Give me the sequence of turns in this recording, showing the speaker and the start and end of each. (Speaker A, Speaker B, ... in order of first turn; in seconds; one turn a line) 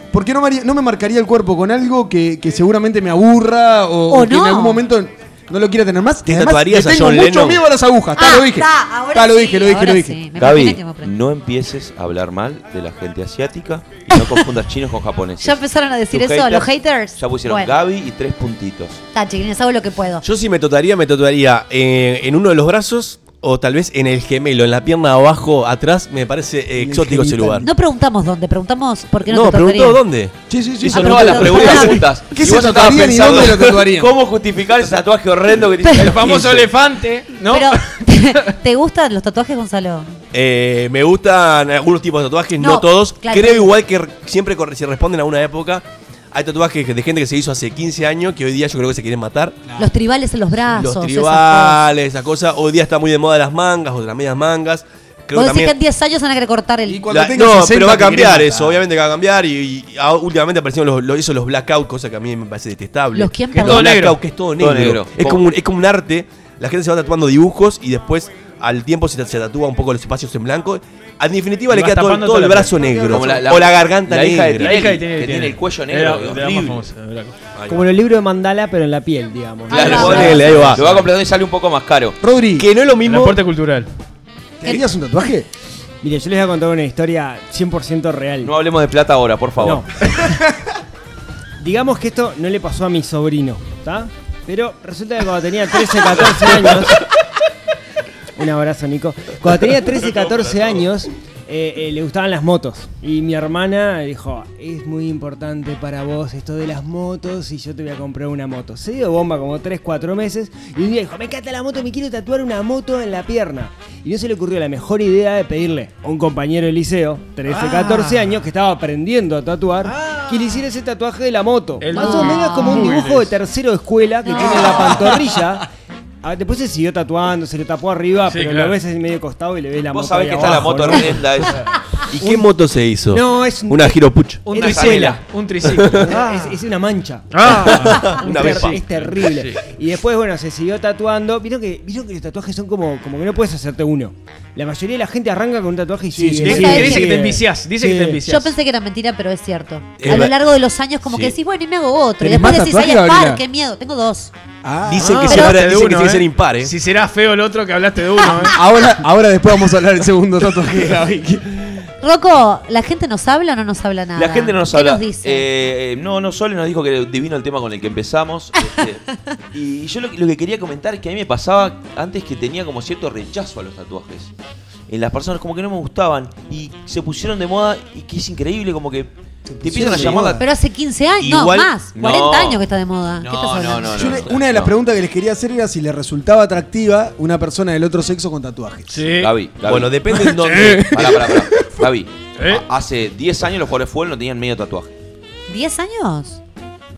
Speaker A: 0.1-10.2
Speaker B: 4.1-4.8
Speaker C: 6.2-7.6
Speaker B: 8.2-11.1
Speaker D: 10.4-19.0
Speaker B: 15.4-17.7
Speaker B: 19.1-20.2
Speaker C: 20.2-27.7
Speaker A: 26.7-27.7
Speaker B: 27.6-30.0
Speaker C: 29.2-30.3
Speaker A: 30.5-34.1
Speaker D: 30.8-36.7
Speaker B: 30.9-32.0
Speaker B: 35.8-36.1
Speaker E: 35.9-38.0
Speaker B: 37.5-40.1
Speaker C: 40.3-49.6
Speaker B: 42.6-43.7
Speaker B: 49.8-51.8
Speaker C: 50.7-55.7
Speaker B: 55.3-57.0
Speaker A: 56.9-58.8
Speaker C: 57.1-74.8
Speaker B: 63.1-64.0
Speaker E: 63.5-64.2
Speaker D: 64.6-65.4
Speaker E: 71.7-73.3
Speaker D: 73.1-76.9
Speaker E: 74.6-77.4
Speaker C: 77.5-77.8
Speaker F: 77.7-80.7
Speaker B: 79.7-80.4
Speaker D: 79.7-82.2
Speaker C: 79.9-80.8
Speaker E: 80.0-80.9
Speaker A: 82.2-82.7
Speaker C: 82.6-83.4
Speaker E: 83.0-83.9
Speaker A: 84.6-85.5
Speaker F: 86.0-88.5
Speaker D: 88.4-89.8
Speaker F: 89.6-90.4
Speaker F: 91.6-97.1
Speaker F: 98.3-125.6
Speaker E: 117.5-118.4
Speaker E: 119.8-120.6
Speaker E: 121.8-123.3
Speaker B: 121.9-122.9
Speaker B: 124.2-124.5
Speaker E: 124.4-125.5
Speaker F: 126.2-131.3
Speaker E: 128.2-128.8
Speaker D: 129.9-131.6
Speaker E: 131.0-131.7
Speaker C: 132.1-134.4
Speaker F: 133.1-134.0
Speaker E: 134.4-136.6
Speaker D: 134.5-135.2
Speaker F: 134.6-135.2
Speaker C: 135.6-136.0
Speaker F: 136.0-147.4
Speaker E: 137.3-138.8
Speaker C: 137.4-138.8
Speaker A: 146.1-147.1
Speaker E: 146.4-148.6
Speaker B: 146.4-147.1
Speaker A: 147.8-148.2
Speaker B: 148.2-154.3
Speaker C: 150.0-150.3
Speaker C: 151.1-151.3
Speaker A: 152.2-153.4
Speaker A: 154.6-155.4
Speaker C: 154.8-156.7
Speaker E: 155.0-158.6
Speaker B: 155.3-155.6
Speaker A: 158.5-161.8
Speaker B: 162.0-165.4
Speaker D: 164.2-174.3
Speaker D: 174.9-180.4
Speaker A: 179.5-180.4
Speaker E: 179.9-180.2
Speaker B: 180.4-184.2
Speaker C: 181.2-181.7
Speaker D: 181.9-182.6
Speaker D: 183.2-184.7
Speaker A: 183.9-189.0
Speaker E: 188.9-189.3
Speaker D: 189.1-189.9
Speaker C: 189.7-191.1
Speaker E: 190.3-191.4
Speaker D: 190.9-194.9
Speaker E: 192.4-192.6
Speaker B: 195.5-196.4